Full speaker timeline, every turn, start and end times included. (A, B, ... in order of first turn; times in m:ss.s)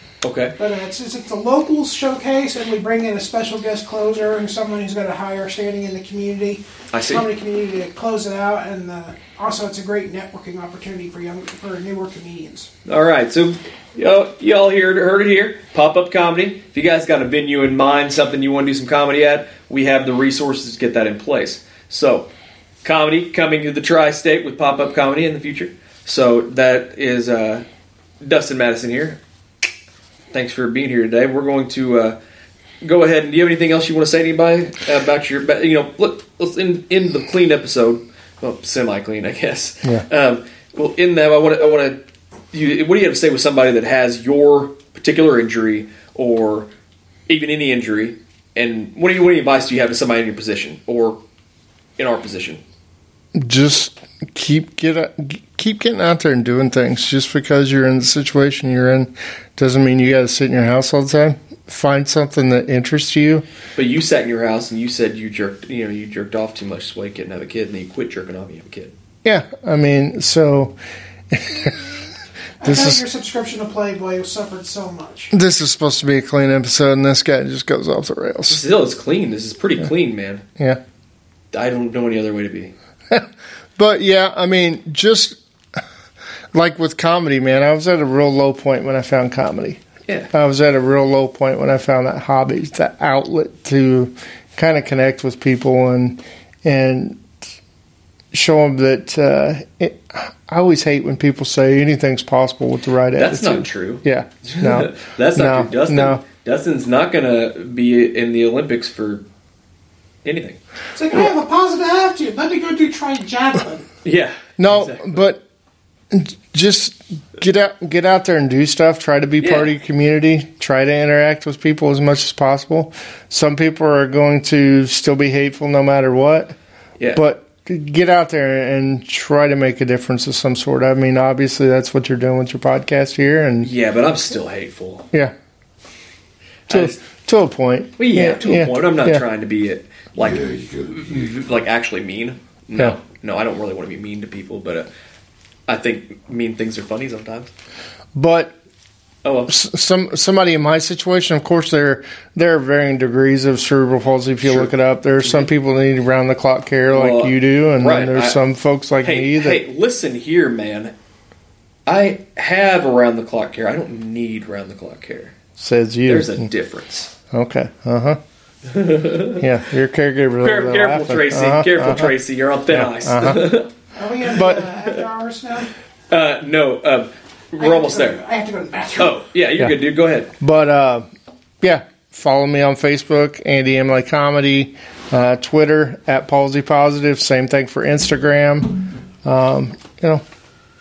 0:00.2-0:00.6 A
0:00.6-0:12.7 B
0:06.9-0:07.2 A
0:12.9-0:22.3 A
0:22.8-0:27.6 A
0:28.2-0:29.2 A
0:30.3-0:32.2 A
0:32.8-0:42.0 A
0:42.5-0:46.7 A
0:47.3-0:51.2 A
0:52.0-0:52.6 A
0:53.4-1:03.4 C
1:03.8-1:08.9 A
1:09.2-1:10.8 C
1:11.3-1:12.0 C
1:12.6-1:15.3 B
1:12.6-1:13.0 C
1:15.3-1:18.6 C
1:18.5-1:20.4 A
1:21.5-1:22.7 A
1:23.1-1:25.4 C
1:26.5-1:29.8 C
1:30.1-1:30.3 A
1:30.3-1:37.2 C
1:38.3-1:46.2 C
1:43.1-1:49.3 A
1:50.2-1:50.6 A
1:51.0-1:53.9 B
1:54.0-1:55.2 A
1:54.6-1:55.4 C
1:56.1-2:06.6 C
1:59.4-1:59.7 A
2:07.1-2:13.7 C
2:13.6-2:15.1 A
2:16.7-2:17.0 A
2:16.7-2:19.2 C
2:18.0-2:24.9 A
2:25.7-2:27.5 A
2:28.2-2:28.6 C
2:29.2-2:29.5 A
2:29.5-2:39.6 C
2:36.9-2:38.4 A
2:39.0-2:40.9 A
2:41.9-2:45.4 A
2:45.6-2:46.5 C
2:46.1-2:47.1 A
2:47.3-2:48.2 C
2:48.6-2:49.4 A
2:49.4-2:52.2 C
2:50.4-2:53.7 A
2:52.7-2:53.5 C
2:54.0-2:55.7 B
2:54.3-2:54.7 C
2:56.1-2:58.2 A
2:57.6-2:59.2 B
2:59.0-3:00.3 A
3:00.4-3:01.1 C
3:01.6-3:10.2 C